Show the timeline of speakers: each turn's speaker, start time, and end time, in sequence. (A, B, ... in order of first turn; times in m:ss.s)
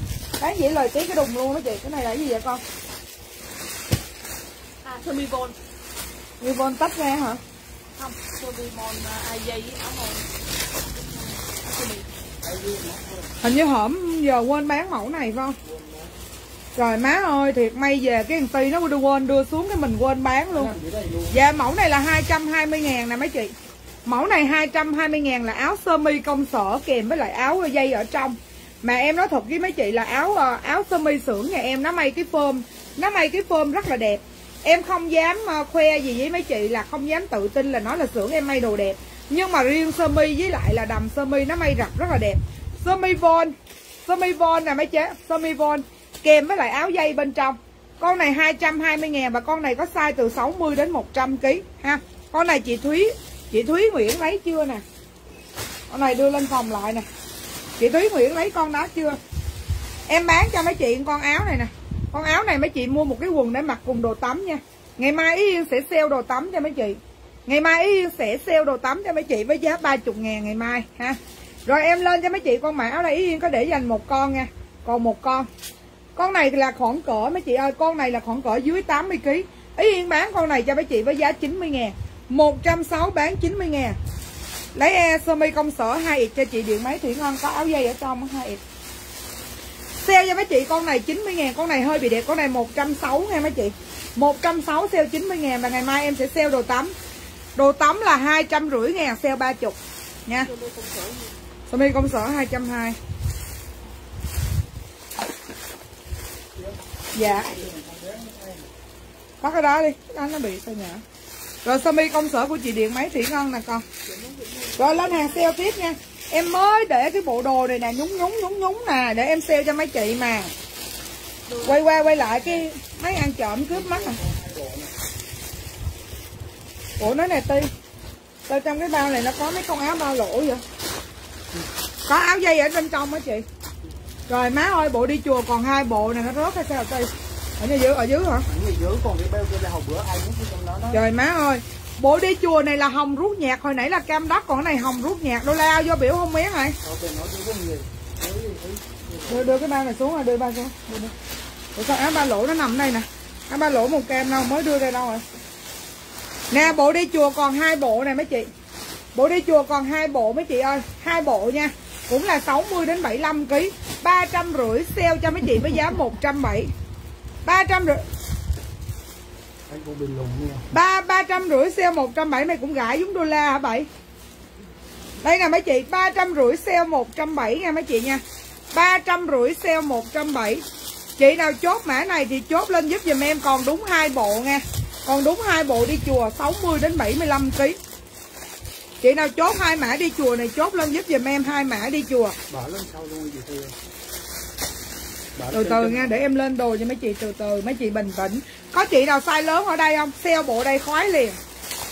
0:00.4-0:02.6 A
0:04.8-0:05.5 B
0:06.4-0:07.4 A
0:08.0-0:10.3 B
0:11.0-0:12.1 B
0:12.4-0:13.2 C
0:13.4-0:15.6 A
0:15.7-0:16.1 C
0:16.7-0:20.7 A
0:20.5-0:21.3 C
0:21.3-0:23.5 A
0:24.0-0:43.5 A
0:44.0-0:54.8 A
0:55.9-0:57.0 A
0:57.8-0:59.2 A
1:00.1-1:15.5 A
1:16.2-1:24.0 A
1:24.7-1:28.6 A
1:30.0-1:36.9 A
1:37.6-1:40.5 A
1:40.4-1:41.3 B
1:41.7-1:43.0 A
1:47.1-1:47.5 A
1:47.4-1:48.6 C
1:49.4-1:51.0 A
1:51.6-1:53.8 A
1:54.0-1:55.5 B
1:54.8-2:00.5 A
2:01.5-2:02.2 B
2:01.6-2:04.2 A
2:03.9-2:04.9 C
2:07.0-2:07.7 A
2:08.5-2:10.6 A
2:12.0-2:13.4 A
2:14.3-2:18.4 A
2:18.5-2:21.0 C
2:20.9-2:26.8 A
2:26.8-2:29.5 C
2:29.3-2:31.1 A
2:31.7-2:35.2 A
2:36.5-2:38.5 A
2:39.1-2:46.7 A
2:47.4-2:48.0 A
2:49.7-2:50.6 C
2:50.7-2:53.9 A
2:55.2-2:58.2 A
2:58.7-3:00.6 A
3:01.2-3:07.8 A
3:09.0-3:12.4 A
3:12.5-3:13.7 C
3:15.4-3:16.2 C
3:15.5-3:21.4 A